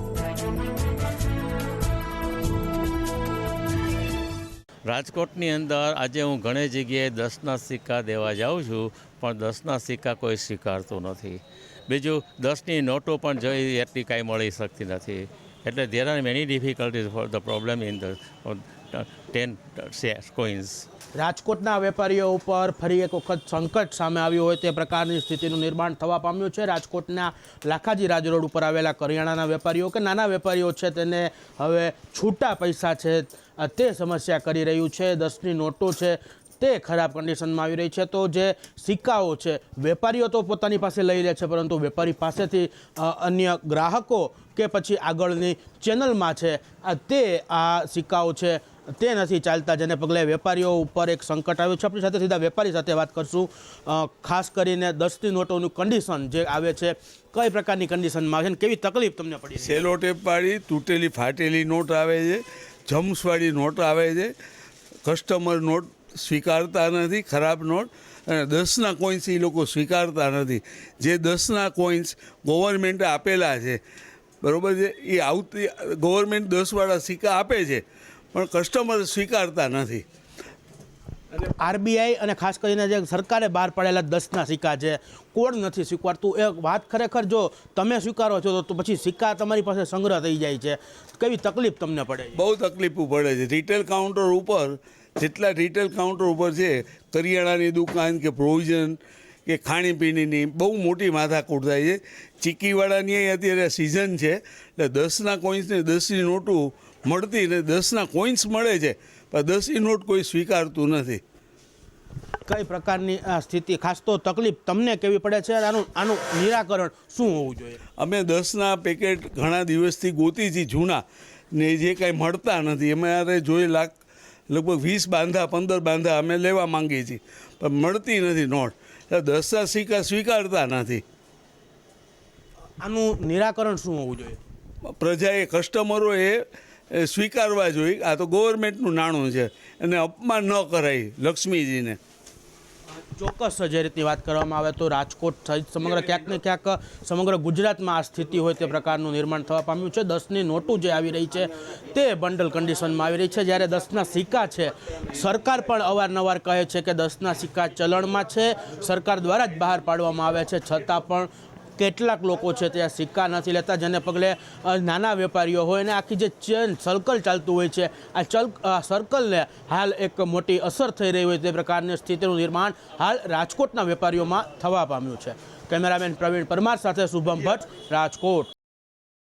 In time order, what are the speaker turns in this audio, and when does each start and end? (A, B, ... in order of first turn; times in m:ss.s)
0:04.8-0:20.9 A
0:21.1-0:59.8 B
0:59.6-1:04.3 C
1:05.0-1:13.8 C
1:14.4-1:17.8 C
1:18.3-1:20.0 C
1:21.6-1:32.4 B
1:32.3-1:51.2 C
1:52.5-1:57.8 B
1:58.0-2:01.0 C
2:01.5-2:04.0 C
2:04.5-2:11.0 C
2:12.8-2:14.4 B
2:15.0-2:22.0 C
2:23.2-2:58.5 B